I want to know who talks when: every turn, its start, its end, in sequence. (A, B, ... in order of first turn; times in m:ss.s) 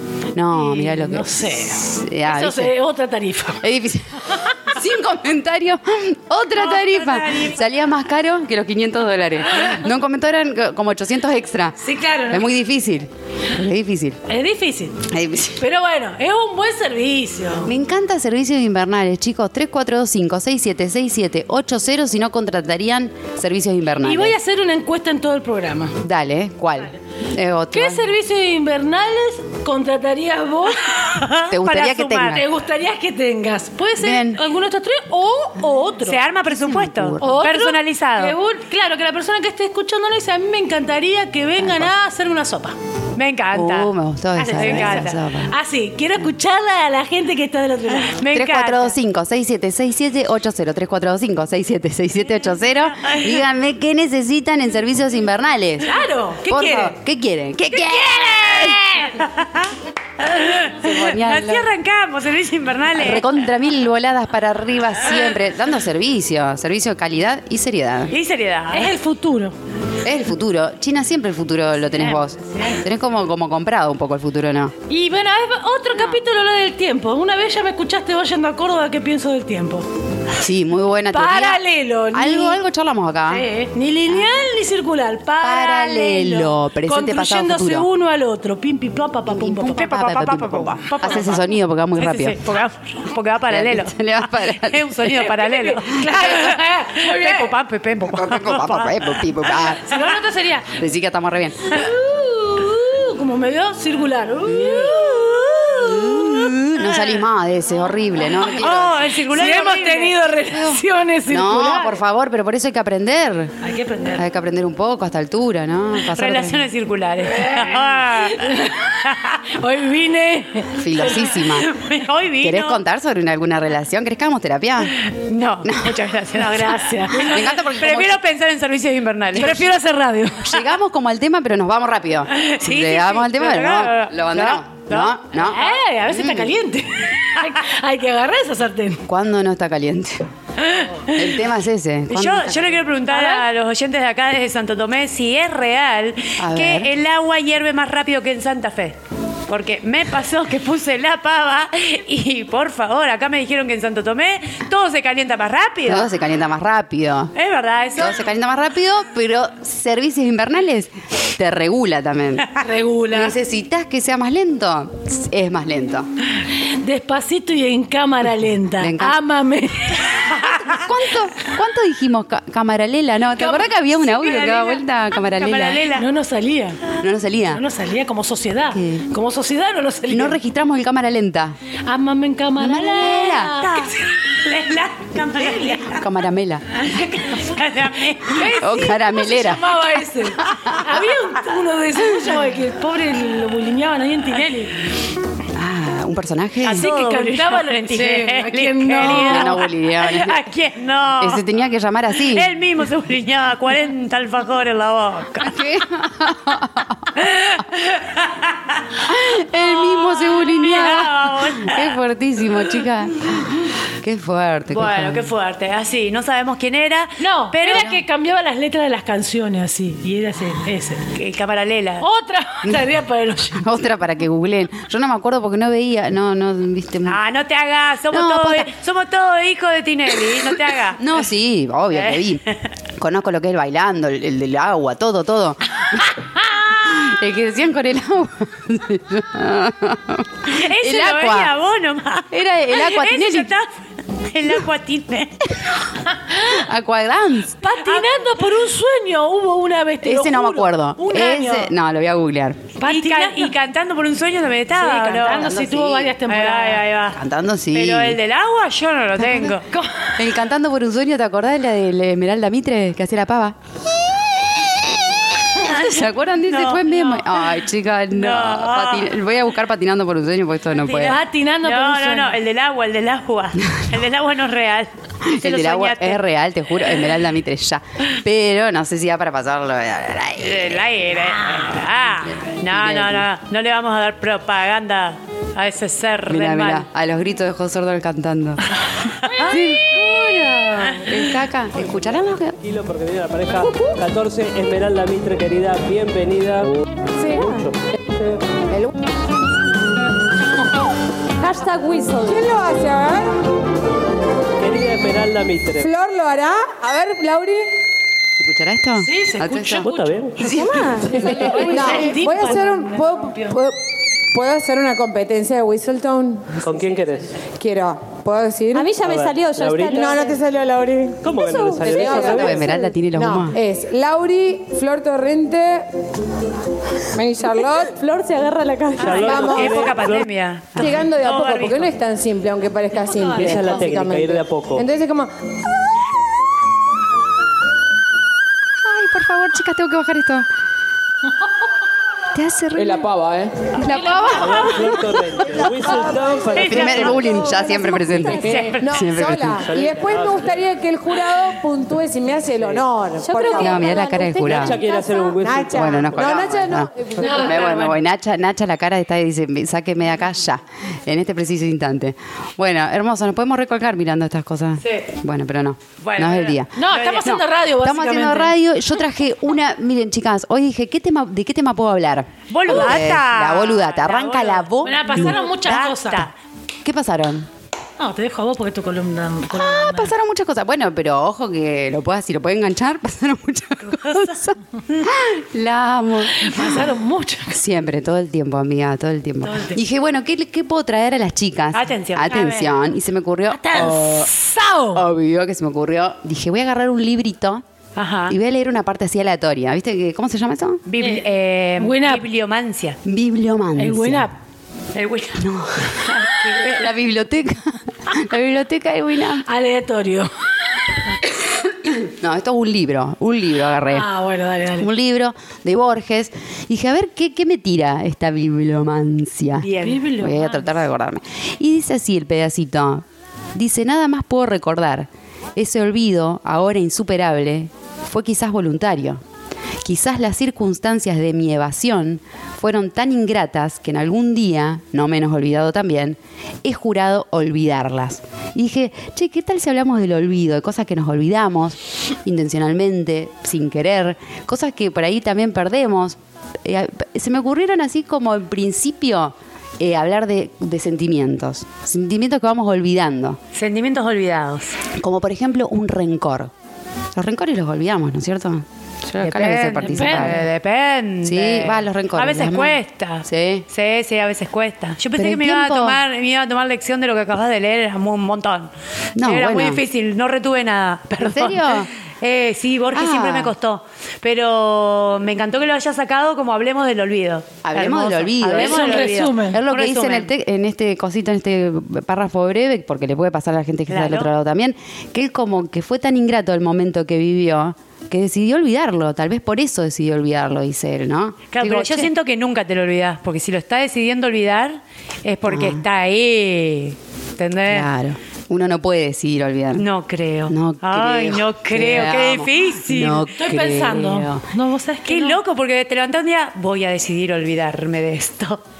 0:00.3-0:02.7 A
0:00.5-0:03.7 B
0:03.6-0:14.2 A
0:06.6-0:07.6 C
0:11.8-0:12.5 B
0:14.2-0:17.7 B
0:15.1-0:15.6 A
0:17.6-0:24.4 A
0:24.0-0:26.0 B
0:26.0-0:28.0 A
0:27.7-0:31.0 B
0:30.9-0:32.4 C
0:31.5-0:32.4 A
0:32.3-0:36.2 B
0:34.0-0:34.4 A
0:36.0-0:38.4 C
0:36.6-0:37.4 A
0:37.2-0:42.8 B
0:41.6-0:41.9 A
0:43.2-0:43.9 C
0:43.5-0:45.5 A
0:44.4-0:48.2 B
0:44.5-0:45.2 C
0:48.0-0:49.0 C
0:48.3-0:58.8 A
0:53.0-0:53.4 C
0:55.8-0:57.0 B
0:58.1-0:59.2 B
0:59.0-1:03.3 C
1:00.7-1:01.7 A
1:02.9-1:08.2 A
1:08.1-1:08.9 C
1:08.7-1:09.5 B
1:10.0-1:14.7 A
1:12.5-1:12.8 B
1:14.9-1:19.9 B
1:20.3-1:23.4 A
1:21.1-1:22.6 B
1:23.3-1:29.9 B
1:25.4-1:27.9 A
1:29.2-1:32.4 A
1:29.8-1:39.7 C
1:33.5-1:35.1 A
1:35.1-1:37.5 B
1:38.0-1:39.9 A
1:39.8-1:40.8 B
1:40.7-1:41.8 A
1:41.7-1:45.6 B
1:44.4-1:45.0 A
1:45.0-1:47.1 C
1:45.6-1:49.1 A
1:48.5-1:50.2 C
1:49.2-1:51.9 B
1:50.4-1:53.5 A
1:53.6-1:54.2 B
1:54.1-1:56.6 A
1:56.1-1:59.4 C
1:57.3-2:01.3 B
2:00.7-2:01.7 A
2:01.4-2:02.8 C
2:02.4-2:04.9 A
2:05.0-2:09.7 C
2:05.6-2:06.0 A
2:06.3-2:07.4 B
2:07.2-2:08.2 A
2:09.4-2:10.6 B
2:10.4-2:16.5 A
2:12.3-2:15.4 C
2:15.4-2:19.0 B
2:19.0-2:20.3 A
2:20.6-2:21.1 B
2:21.1-2:22.8 A
2:22.1-2:29.0 C
2:23.1-2:23.4 B
2:26.4-2:26.9 A
2:29.5-2:36.1 C
2:35.8-2:37.3 A
2:37.3-2:38.2 C
2:38.0-2:42.5 A
2:42.6-2:43.4 B
2:43.1-2:46.1 A
2:46.4-2:50.3 B
2:48.8-2:49.2 A
2:50.5-2:55.8 A
2:53.4-2:54.7 B
2:55.2-2:56.1 C
2:55.9-2:56.8 B
2:57.0-2:57.6 A
2:57.5-3:00.4 B
2:58.7-2:59.1 A
3:00.1-3:01.6 A
3:01.8-3:04.0 B
3:02.6-3:03.6 A
3:03.5-3:06.0 C
3:05.9-3:06.7 A
3:06.8-3:08.6 C
3:07.2-3:07.5 B
3:08.2-3:14.8 B
3:08.4-3:09.8 A
3:10.5-3:10.8 A
3:15.5-3:16.9 A
3:16.6-3:21.4 C
3:16.7-3:19.6 B
3:19.0-3:20.4 A
3:21.2-3:22.5 A
3:22.2-3:25.6 C
3:25.4-3:27.1 A
3:27.2-3:28.8 C
3:29.0-3:35.3 A
3:29.6-3:32.0 C
3:34.7-3:37.9 C
3:37.2-3:41.1 B
3:37.7-3:38.0 A
3:41.1-3:42.0 C
3:42.0-3:43.6 B
3:43.5-3:47.2 A
3:47.1-3:51.2 C
3:48.1-3:48.7 A
3:51.0-3:52.4 A
3:51.9-3:52.3 C
3:53.0-4:01.6 A
4:00.5-4:03.7 C
4:02.3-4:03.5 A
4:04.3-4:05.5 C
4:06.3-4:06.6 B
4:06.4-4:07.6 A
4:07.6-4:11.7 B
4:07.8-4:08.1 C
4:10.0-4:12.7 A
4:12.8-4:13.5 B
4:12.9-4:15.5 C
4:14.7-4:16.8 B
4:15.4-4:16.2 A
4:16.2-4:17.2 C
4:17.1-4:18.2 A
4:17.7-4:19.6 C
4:19.2-4:19.5 A
4:19.7-4:20.2 B
4:20.2-4:23.6 A
4:25.6-4:31.2 A
4:25.6-4:27.6 C
4:28.1-4:29.1 C
4:30.8-4:36.2 C
4:31.0-4:32.4 B
4:35.2-4:40.8 A
4:40.4-4:46.8 C
4:42.2-4:43.3 A
4:46.3-4:48.6 A
4:49.2-4:49.6 C
4:49.3-4:51.1 B
4:49.4-4:52.6 A
4:52.6-4:56.7 D
4:53.7-4:54.0 E
4:57.3-4:57.7 D
4:57.3-4:57.6 F
4:58.2-4:58.9 E
5:01.4-5:02.4 F
5:02.2-5:03.3 E
5:04.6-5:05.9 D
5:05.8-5:07.7 E
5:08.4-5:10.8 A
5:09.0-5:10.3 B
5:09.8-5:10.9 D
5:10.4-5:11.9 F
5:11.1-5:13.6 B
5:11.1-5:16.7 E
5:16.6-5:17.3 D
5:17.6-5:19.0 E
5:18.7-5:20.4 F
5:19.0-5:20.3 D
5:19.9-5:25.9 E
5:21.2-5:22.6 D
5:21.3-5:22.4 F
5:22.3-5:23.6 A
5:27.1-5:28.1 E
5:27.9-5:29.5 F
5:29.0-5:29.9 E
5:29.0-5:30.3 D
5:29.2-5:31.9 C
5:30.8-5:35.3 E
5:33.4-5:34.8 D
5:38.8-5:40.4 A
5:42.3-5:43.1 A
5:42.8-5:43.7 D
5:43.7-5:45.9 A
5:43.8-5:44.9 B
5:44.3-5:47.4 D
5:46.5-5:47.2 C
5:46.6-5:49.7 A
5:47.5-5:48.4 F
5:48.3-5:49.2 C
5:48.5-5:54.0 E
5:49.5-5:50.6 D
5:52.6-5:52.8 D
5:53.2-5:55.4 F
5:53.6-5:54.8 A
5:54.4-5:56.5 D
5:55.4-5:57.7 E
5:55.7-6:15.4 A
5:57.2-5:58.0 B
6:04.8-6:05.1 C
6:06.0-6:07.3 C
6:06.8-6:08.6 B
6:12.5-6:16.3 C
6:14.8-6:16.3 B
6:16.8-6:17.5 A
6:18.0-6:20.1 B
6:19.5-6:26.8 A
6:23.9-6:24.4 C
6:26.3-6:27.6 B
6:27.5-6:34.3 A
6:29.4-6:29.8 B
6:31.7-6:32.7 C
6:33.5-6:35.0 B
6:34.9-6:37.6 A
6:38.0-6:38.4 C
6:38.3-6:40.8 A
6:40.9-6:43.0 C
6:41.0-6:41.2 B
6:41.8-6:42.2 B
6:43.0-6:44.3 A
6:43.8-6:44.4 B
6:44.9-6:46.9 C
6:45.4-6:49.4 A
6:49.4-6:51.0 B
6:51.6-6:54.1 A
6:53.9-6:54.9 B
6:54.8-7:09.2 A
6:59.6-7:00.0 C
6:59.8-7:00.8 B
7:09.8-7:33.4 A
7:33.5-7:34.8 C
7:35.0-7:36.5 A
7:37.1-7:40.4 A
7:39.2-8:00.3 C
7:39.8-7:40.4 B
7:41.2-7:43.6 A
7:45.2-7:46.0 A
7:49.2-7:49.8 A
7:51.2-7:51.9 A
7:52.9-7:53.5 A
7:57.6-8:12.1 A
7:58.5-7:59.6 B
8:03.9-8:04.3 C
8:11.5-8:17.9 C
8:15.5-8:15.8 A
8:17.6-8:19.9 A
8:19.8-8:23.2 C
8:20.5-8:24.4 A
8:23.3-8:25.4 B
8:25.1-8:28.6 C